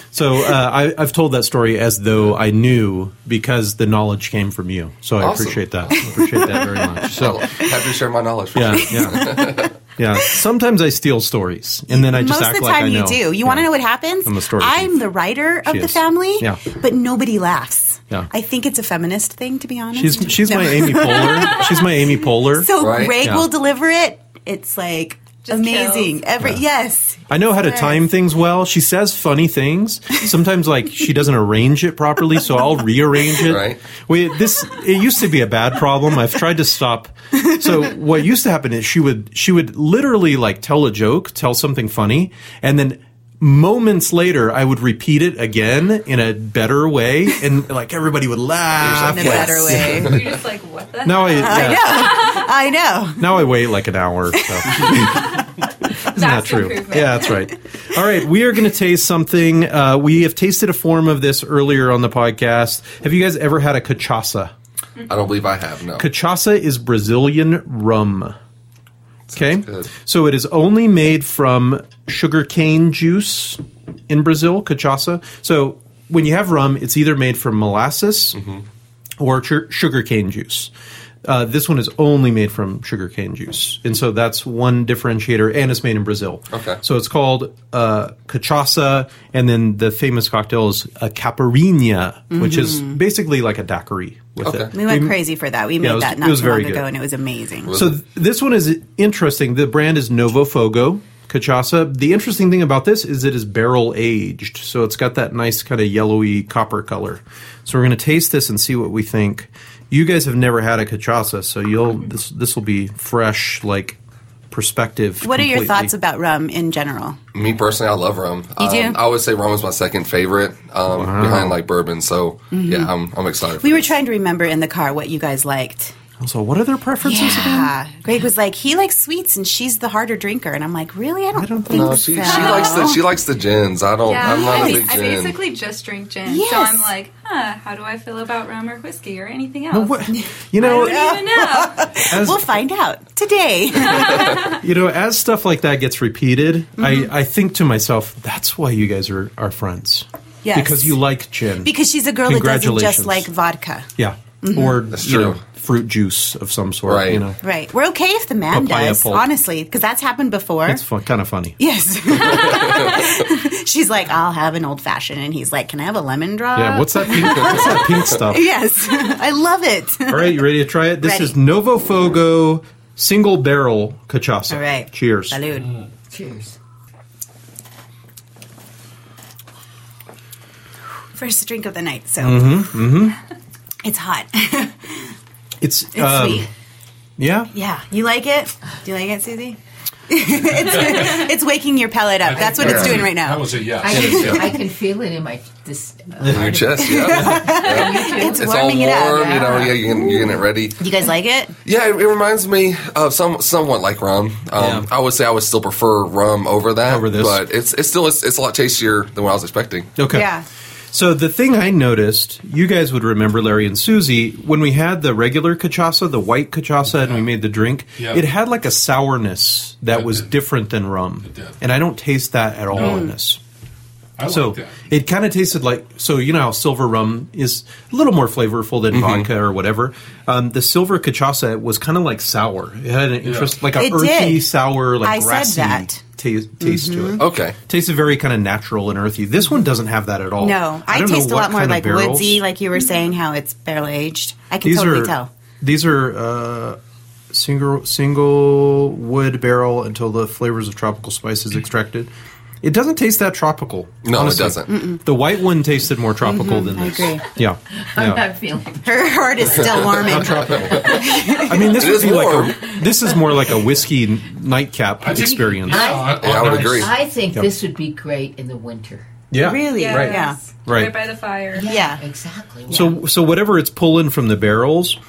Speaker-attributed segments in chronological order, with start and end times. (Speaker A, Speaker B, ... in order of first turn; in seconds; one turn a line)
Speaker A: 0.1-7.5
Speaker B: 5.2-6.1
Speaker C: 6.0-7.0
Speaker B: 7.1-9.7
Speaker A: 8.5-13.7
Speaker C: 8.9-9.6
Speaker C: 11.9-28.1
Speaker A: 14.2-15.1
Speaker A: 15.7-16.6
Speaker A: 19.9-23.5
Speaker B: 22.8-23.1
Speaker D: 25.4-26.1
Speaker A: 27.3-50.2
Speaker B: 33.4-33.8
Speaker B: 48.8-50.2
Speaker C: 49.1-50.2
Speaker D: 49.8-52.4
Speaker A: 51.0-52.1
Speaker C: 51.4-53.4
Speaker A: 53.2-55.4
Speaker C: 54.4-55.4
Speaker A: 56.0-64.5
Speaker D: 56.0-57.3
Speaker B: 65.1-66.1
Speaker A: 66.0-68.3
Speaker B: 69.3-69.9
Speaker A: 69.3-78.4
Speaker A: 79.2-80.7
Speaker A: 81.2-95.2
Speaker B: 86.5-86.8
Speaker C: 92.3-93.0
Speaker B: 94.4-94.7
Speaker C: 94.7-97.7
Speaker A: 95.8-96.9
Speaker B: 97.7-97.9
Speaker A: 97.7-114.0
Speaker A: 114.5-115.9
Speaker C: 115.2-117.2
Speaker B: 117.3-123.9
Speaker C: 118.6-119.0
Speaker A: 120.9-121.6
Speaker C: 122.5-122.9
Speaker C: 123.6-125.9
Speaker A: 126.2-127.7
Speaker C: 127.0-133.0
Speaker A: 131.3-132.6
Speaker B: 131.7-135.4
Speaker D: 134.0-141.9
Speaker C: 134.2-134.8
Speaker C: 136.2-136.9
Speaker A: 139.7-141.1
Speaker C: 140.1-144.5
Speaker A: 142.0-142.5
Speaker A: 144.4-151.7
Speaker C: 146.8-147.1
Speaker C: 150.4-151.0
Speaker C: 151.6-153.9
Speaker A: 152.2-153.3
Speaker A: 154.0-157.4
Speaker C: 154.4-154.9
Speaker B: 154.9-155.4
Speaker B: 156.8-157.2
Speaker C: 157.4-160.8
Speaker A: 158.5-159.2
Speaker A: 160.7-161.6
Speaker C: 161.6-171.4
Speaker B: 162.4-162.9
Speaker A: 166.5-168.4
Speaker A: 170.1-175.4
Speaker C: 174.5-175.7
Speaker E: 176.1-176.6
Speaker C: 181.1-182.8
Speaker A: 182.2-183.2
Speaker C: 183.8-185.1
Speaker A: 185.6-186.5
Speaker C: 185.9-186.5
Speaker A: 187.2-187.5
Speaker C: 187.5-189.6
Speaker C: 190.1-194.6
Speaker F: 190.7-191.2
Speaker F: 192.2-194.5
Speaker B: 192.6-193.1
Speaker E: 193.8-200.0
Speaker A: 193.9-194.5
Speaker A: 196.2-196.6
Speaker B: 196.3-200.8
Speaker C: 196.8-201.5
Speaker B: 201.6-209.9
Speaker A: 204.6-204.9
Speaker A: 206.8-207.4
Speaker A: 210.0-210.3
Speaker C: 210.1-210.4
Speaker A: 210.9-223.4
Speaker F: 216.9-217.3
Speaker F: 218.0-218.2
Speaker F: 219.9-220.3
Speaker F: 221.3-221.5
Speaker F: 222.7-223.1
Speaker C: 222.8-223.1
Speaker F: 224.2-224.8
Speaker A: 224.2-242.4
Speaker B: 228.9-229.3
Speaker F: 233.2-233.6
Speaker C: 233.7-236.0
Speaker C: 236.6-237.2
Speaker B: 237.2-237.6
Speaker C: 240.4-245.3
Speaker A: 244.6-246.8
Speaker A: 247.3-252.1
Speaker A: 252.6-258.2
Speaker B: 254.0-254.7
Speaker C: 254.7-255.0
Speaker C: 256.2-257.3
Speaker E: 257.7-259.0
Speaker C: 258.8-262.0
Speaker A: 259.6-266.1
Speaker B: 259.6-261.0
Speaker B: 261.6-262.6
Speaker F: 265.0-267.0
Speaker B: 265.7-266.9
Speaker E: 265.7-269.1
Speaker A: 269.3-270.9
Speaker C: 269.4-270.4
Speaker D: 269.7-271.7
Speaker E: 271.5-272.9
Speaker C: 271.6-272.0
Speaker A: 272.7-275.0